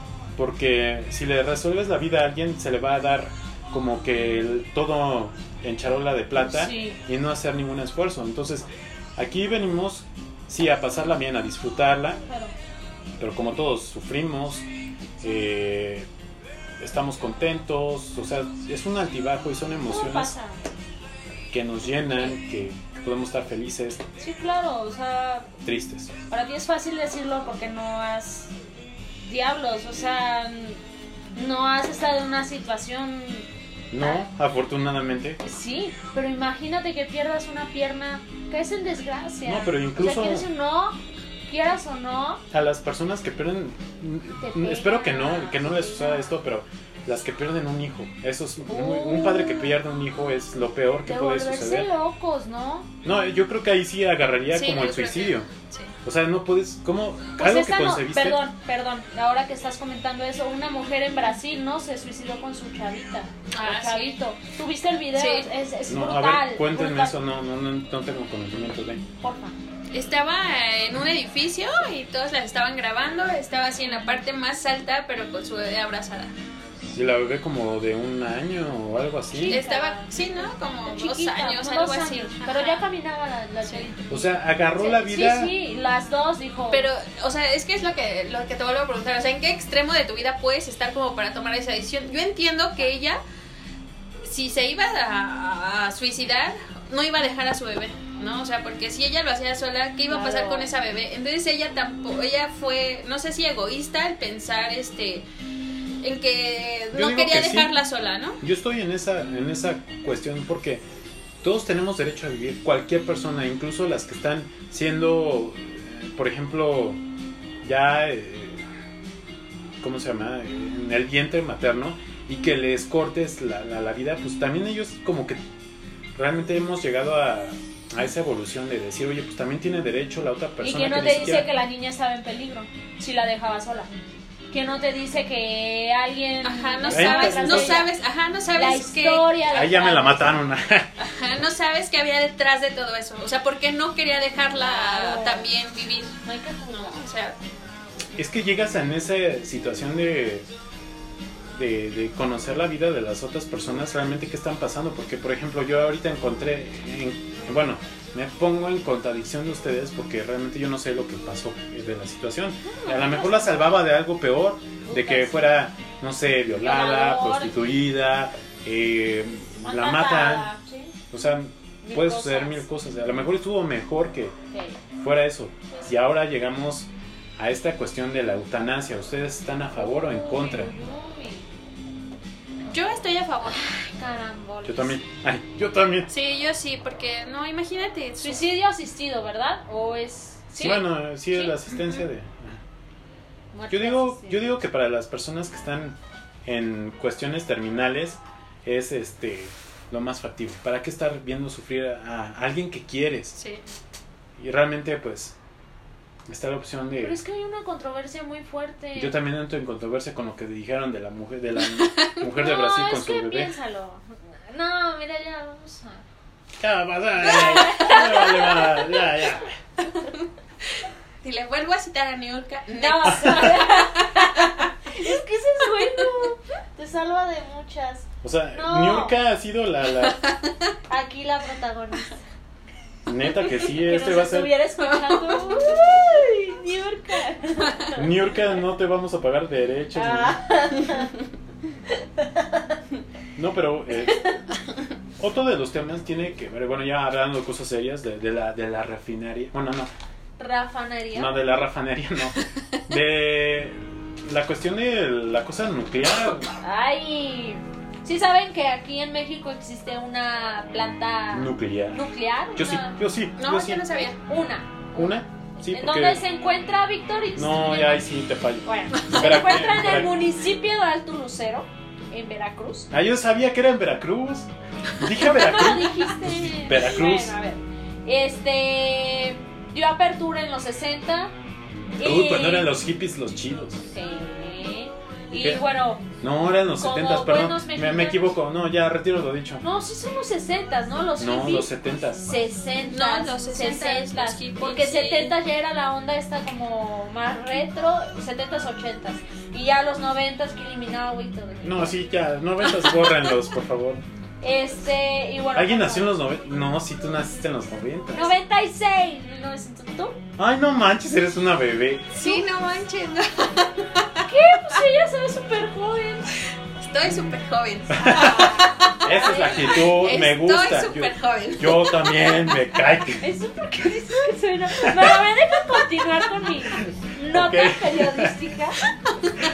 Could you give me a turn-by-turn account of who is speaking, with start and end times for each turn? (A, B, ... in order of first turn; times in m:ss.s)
0:00.4-0:12.2 A
0:06.4-0:07.0 B
0:12.2-0:12.5 B
0:13.2-0:14.6 A
0:15.2-0:16.1 A
0:16.8-0:20.3 A
0:19.9-0:20.6 B
0:21.5-0:24.0 A
0:22.1-0:22.4 B
0:24.2-0:25.5 B
0:25.6-0:26.1 A
0:26.3-0:28.5 B
0:29.2-0:30.8 B
0:31.3-0:33.5 B
0:33.9-0:35.4 A
0:35.4-0:42.4 B
0:39.4-0:40.5 A
0:42.5-0:51.9 A
0:44.4-0:46.3 B
0:48.7-0:49.8 B
0:51.0-0:52.9 B
0:53.0-0:55.5 A
0:54.5-0:55.9 C
0:56.0-0:58.4 A
0:57.4-1:07.2 B
1:03.5-1:04.2 C
1:05.1-1:05.5 C
1:05.9-1:09.0 A
1:09.2-1:09.6 B
1:09.9-1:16.3 C
1:16.9-1:19.6 A
1:19.3-1:26.9 B
1:19.5-1:22.8 C
1:24.1-1:25.5 A
1:26.7-1:33.2 C
1:34.2-1:45.2 C
1:40.1-1:40.7 B
1:46.0-1:48.4 C
1:46.9-1:47.8 A
1:48.4-1:50.8 A
1:51.4-1:57.0 A
1:57.6-1:58.6 A
1:59.8-2:05.4 A
2:06.1-2:11.5 A
2:10.6-2:13.9 B
2:14.5-2:17.9 B
2:16.4-2:19.3 C
2:16.9-2:17.8 A
2:18.5-2:20.4 B
2:19.5-2:20.9 A
2:21.0-2:26.2 C
2:24.6-2:25.5 B
2:26.2-2:27.0 B
2:26.7-2:27.4 C
2:28.2-2:30.5 A
2:31.5-2:50.5 A
2:42.6-2:43.7 B
2:44.8-2:45.5 B
2:46.6-2:47.6 B
2:49.6-2:50.9 B
2:51.1-2:54.3 A
2:51.8-2:52.6 B
2:54.5-2:54.8 B
2:55.0-3:00.7 A
2:59.8-3:01.5 B
3:02.6-3:03.6 C
3:03.5-3:05.0 B
3:04.6-3:06.1 A
3:06.1-3:08.4 C
3:08.2-3:11.6 B
3:10.6-3:12.6 A
3:13.5-3:14.4 B
3:13.7-3:23.4 A
3:23.4-3:23.6 C
3:24.4-3:25.3 A
3:26.3-3:27.2 A
3:27.0-3:29.2 B
3:29.0-3:33.5 A
3:32.3-3:36.0 B
3:36.6-3:39.6 A
3:37.2-3:38.9 B
3:41.2-3:44.7 C
3:42.7-3:49.2 B
3:45.8-3:46.1 C
3:48.2-3:50.2 A
3:50.0-3:50.5 C
3:50.9-3:52.2 B
3:53.0-3:54.6 A
3:53.5-3:58.0 B
3:54.8-3:55.8 C
3:57.9-4:00.4 A
3:59.9-4:01.1 B
4:01.9-4:02.8 B
4:03.3-4:04.4 A
4:05.2-4:09.9 A
4:10.4-4:11.4 B
4:11.1-4:16.5 A
4:16.6-4:23.0 B
4:21.3-4:22.0 A
4:22.6-4:23.8 A
4:23.4-4:24.2 C
4:23.8-4:28.1 B
4:24.9-4:26.2 A
4:27.4-4:30.2 A
4:28.6-4:32.9 B
4:32.9-4:37.4 A
4:35.2-4:41.3 B
4:42.0-4:42.7 B
4:42.0-4:43.9 A
4:43.9-4:46.0 B
4:45.4-4:45.6 A
4:46.2-4:49.6 A
4:46.8-4:48.3 B
4:49.6-5:02.0 B
4:51.2-4:52.2 A
4:52.9-4:55.4 C
5:01.6-5:04.0 A
5:04.4-5:06.2 B
5:05.5-5:08.3 A
5:08.1-5:10.2 B
5:10.4-5:12.4 A
5:12.1-5:14.1 C
5:14.2-5:16.3 B
5:16.8-5:22.2 C
5:17.9-5:23.2 A
5:18.0-5:19.9 B
5:23.2-5:28.8 B
5:24.8-5:25.1 A
5:26.8-5:28.4 A